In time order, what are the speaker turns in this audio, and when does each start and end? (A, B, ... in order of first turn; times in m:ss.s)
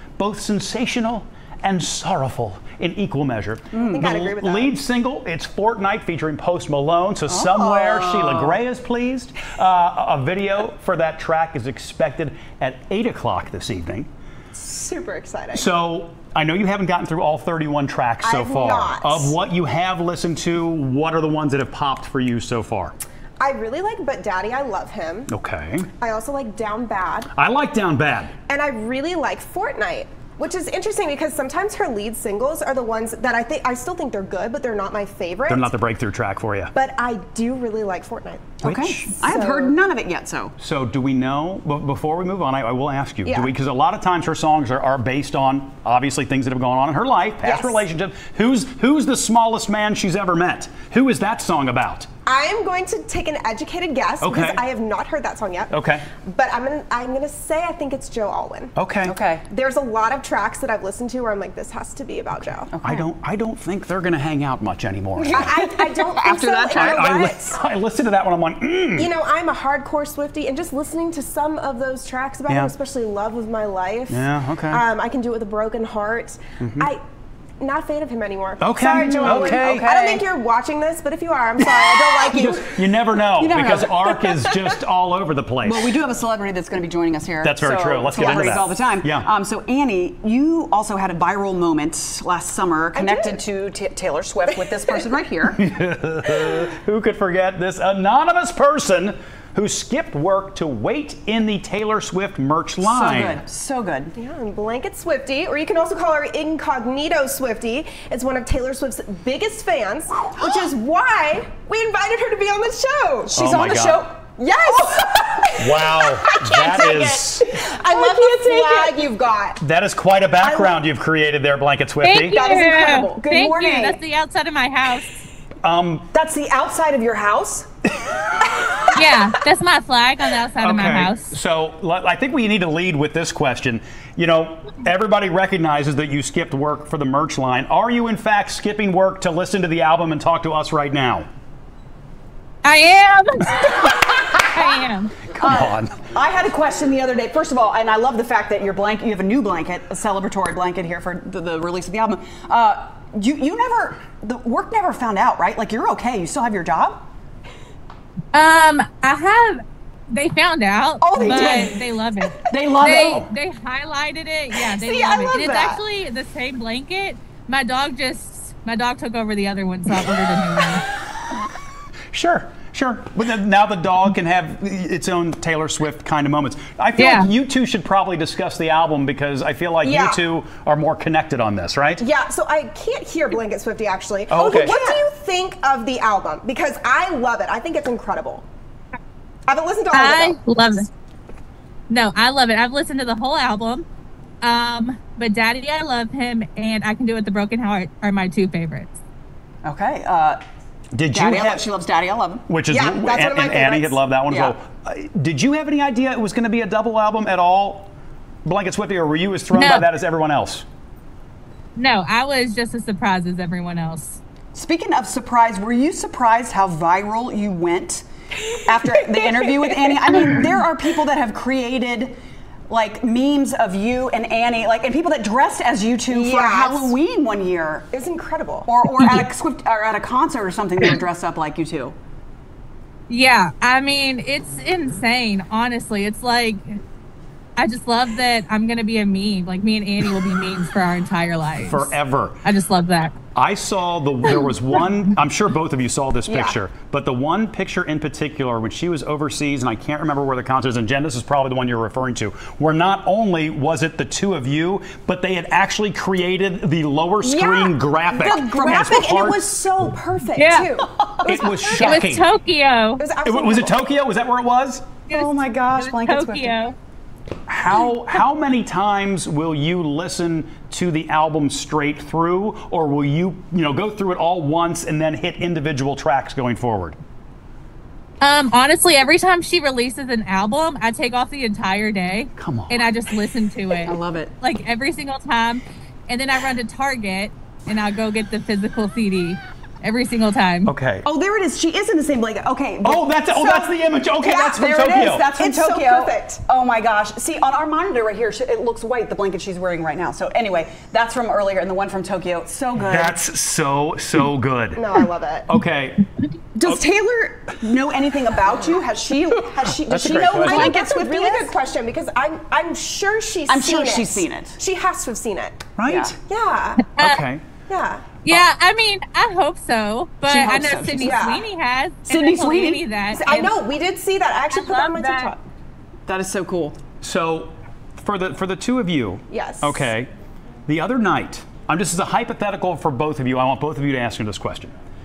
0:00.2-0:14.1 A
0:03.7-0:04.0 B
0:03.9-0:04.7 C
0:07.3-0:08.6 B
0:14.6-0:15.7 C
0:15.5-0:23.0 A
0:18.2-0:19.3 C
0:23.4-0:25.3 C
0:25.3-0:25.9 A
0:26.0-0:27.3 C
0:27.3-0:28.3 A
0:28.5-0:35.7 C
0:35.5-0:36.7 A
0:36.7-0:38.5 C
0:38.6-0:39.4 A
0:38.6-0:40.5 B
0:39.2-0:39.8 C
0:40.6-0:52.1 A
0:43.2-0:43.5 C
0:47.4-0:47.8 C
0:52.3-0:55.7 C
0:54.2-0:54.6 A
0:55.7-0:56.1 A
0:56.2-0:58.7 C
0:58.8-0:59.2 A
0:59.0-0:59.4 B
0:59.5-1:02.7 C
1:02.7-1:03.0 B
1:02.8-1:05.5 A
1:05.2-1:07.6 C
1:05.4-1:07.2 B
1:06.7-1:09.1 A
1:09.0-1:17.0 C
1:12.5-1:12.7 A
1:14.1-1:14.8 A
1:16.6-1:16.9 A
1:17.6-1:22.7 C
1:18.6-1:19.9 A
1:18.8-1:20.2 B
1:22.3-1:25.9 A
1:23.4-1:24.2 B
1:25.6-1:35.6 B
1:27.4-1:29.3 A
1:32.9-1:33.4 C
1:35.6-1:43.4 A
1:42.8-1:44.1 B
1:44.2-1:53.4 C
1:53.3-1:55.5 B
1:53.3-1:54.0 A
1:54.5-1:59.6 C
1:55.6-1:57.6 A
1:57.4-1:59.0 B
1:59.6-2:02.4 A
2:00.4-2:00.7 C
2:02.0-2:05.3 D
2:02.3-2:04.0 B
2:05.6-2:06.1 A
2:06.1-2:07.7 B
2:08.9-2:11.4 D
2:10.6-2:21.3 A
2:22.6-2:25.2 D
2:25.3-2:26.0 A
2:25.4-2:37.1 B
2:38.3-2:50.9 D
2:41.0-2:41.8 B
2:42.5-2:43.3 B
2:44.7-2:45.8 C
2:52.1-3:02.0 A
2:57.0-2:57.3 D
2:59.8-3:00.2 C
3:02.0-3:08.4 C
3:04.3-3:04.8 A
3:04.5-3:05.0 B
3:09.5-3:10.4 C
3:09.9-3:10.9 D
3:11.9-3:13.9 D
3:14.4-3:19.0 D
3:19.6-3:20.4 B
3:20.9-3:21.7 A
3:21.1-3:22.4 B
3:22.5-3:27.9 A
3:22.7-3:24.0 C
3:24.3-3:24.6 B
3:28.4-3:30.6 A
3:29.5-3:29.9 D
3:31.8-3:34.2 D
3:34.5-3:42.2 B
3:42.7-3:47.9 B
3:46.1-3:47.0 C
3:47.9-3:48.7 C
3:48.7-3:52.0 B
3:53.1-3:56.8 D
3:57.6-4:03.1 D
4:01.7-4:02.4 A
4:03.4-4:19.5 A
4:17.2-4:22.1 C
4:18.1-4:19.0 B
4:20.4-4:20.7 D
4:20.8-4:21.4 B
4:21.2-4:22.3 A
4:21.6-4:23.0 D
4:23.0-4:23.8 C
4:23.2-4:24.9 A
4:25.1-4:26.6 B
4:25.1-4:26.8 D
4:27.5-4:37.0 A
4:38.2-4:50.7 D
4:42.4-4:42.9 A
4:43.9-4:44.3 B
4:50.6-4:51.1 A
4:51.0-4:53.1 B
4:52.8-4:55.3 A
4:53.4-4:53.7 C
4:54.2-4:56.4 C
4:54.5-5:03.2 B
5:02.8-5:04.9 A
5:04.8-5:05.5 C
5:05.5-5:06.1 A
5:06.6-5:11.6 B
5:09.8-5:10.8 A
5:10.3-5:15.6 C
5:13.5-5:14.6 B
5:15.8-5:16.2 A
5:15.9-5:16.1 B
5:16.3-5:16.9 C
5:16.9-5:17.2 D
5:17.0-5:17.4 A
5:17.7-5:18.1 C
5:18.2-5:23.6 D
5:20.2-5:21.2 B
5:21.0-5:21.4 C
5:22.1-5:22.8 B
5:23.1-5:25.4 C
5:24.5-5:25.3 D
5:26.1-5:26.8 B
5:27.0-5:30.1 A
5:29.3-5:29.9 C
5:30.7-5:34.7 A